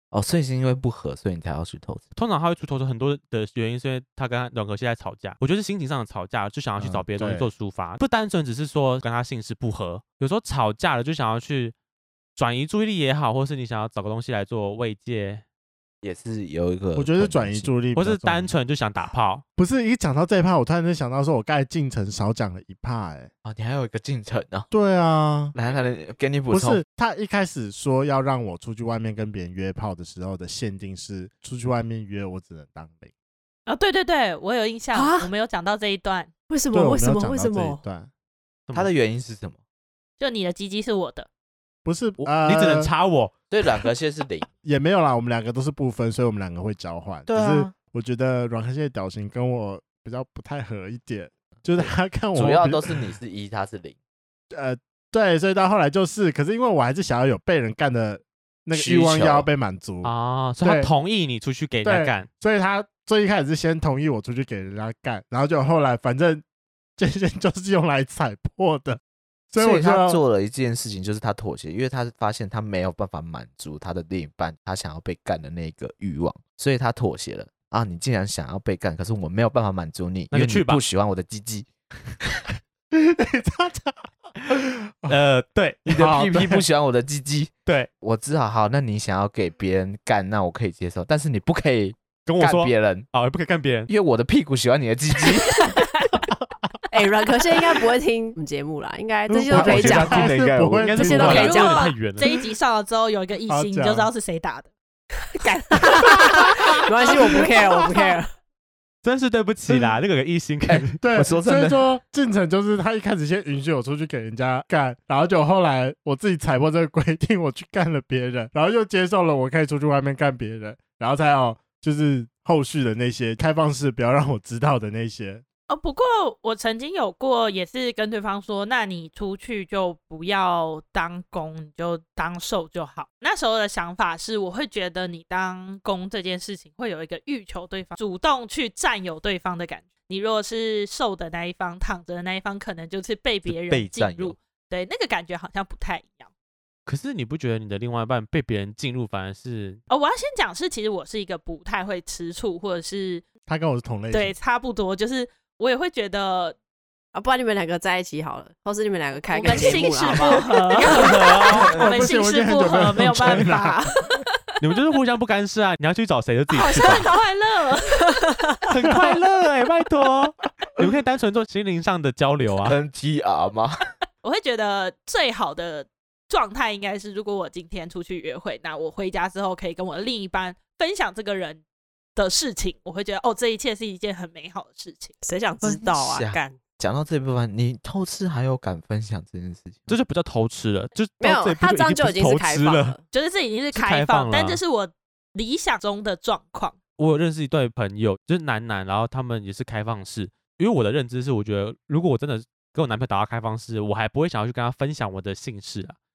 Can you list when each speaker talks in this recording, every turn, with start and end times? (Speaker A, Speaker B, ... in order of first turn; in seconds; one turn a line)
Speaker A: 0.1-2.1
Speaker B: 2.1-11.8
Speaker C: 6.8-7.5
Speaker B: 12.4-15.4
Speaker A: 16.0-17.7
Speaker C: 17.0-18.5
Speaker B: 17.9-19.4
Speaker C: 19.6-23.3
Speaker A: 23.4-24.7
Speaker C: 24.7-25.5
Speaker A: 25.5-26.8
Speaker C: 26.5-33.1
Speaker D: 33.7-36.3
Speaker E: 34.9-35.3
Speaker E: 36.5-37.8
Speaker C: 36.7-38.1
Speaker A: 38.7-39.6
Speaker D: 40.2-41.3
Speaker C: 41.9-42.9
Speaker B: 42.2-43.3
Speaker A: 43.5-44.5
Speaker C: 44.6-53.0
Speaker A: 47.3-47.7
Speaker A: 51.8-54.0
Speaker C: 54.5-60.1
Speaker A: 58.7-59.5
Speaker B: 60.0-62.3
Speaker C: 60.6-60.9
Speaker C: 61.8-66.4
Speaker C: 67.0-69.0
Speaker C: 69.5-70.2
Speaker A: 69.6-81.7
Speaker B: 80.3-80.8
Speaker C: 82.9-85.2
Speaker B: 85.1-86.6
Speaker C: 85.9-86.5
Speaker A: 85.9-93.1
Speaker B: 92.3-93.9
Speaker A: 93.9-95.8
Speaker E: 96.9-100.3
Speaker C: 99.3-101.6
Speaker B: 99.5-102.3
Speaker A: 99.5-100.9
Speaker E: 101.0-101.9
Speaker D: 101.2-104.7
Speaker C: 103.5-104.1
Speaker E: 105.4-108.3
Speaker D: 106.0-106.2
Speaker B: 109.0-111.0
Speaker A: 110.7-111.8
Speaker C: 111.0-125.4
Speaker D: 125.7-146.3
Speaker A: 143.5-144.4
Speaker B: 146.9-149.8
Speaker D: 149.9-153.3
Speaker C: 153.5-154.3
Speaker D: 154.1-156.6
Speaker E: 157.1-161.1
Speaker D: 159.3-164.1
Speaker B: 160.8-161.8
Speaker C: 161.5-163.9
Speaker B: 164.6-167.1
Speaker D: 166.6-168.0
Speaker E: 166.6-167.2
Speaker E: 168.2-168.7
Speaker B: 168.7-172.8
Speaker C: 168.9-169.2
Speaker A: 172.6-173.8
Speaker D: 174.2-181.6
Speaker D: 182.2-185.1
Speaker E: 185.2-186.6
Speaker A: 185.6-190.0
Speaker B: 189.9-193.0
Speaker E: 191.2-193.0
Speaker D: 193.1-196.8
Speaker B: 193.7-194.6
Speaker B: 197.0-206.0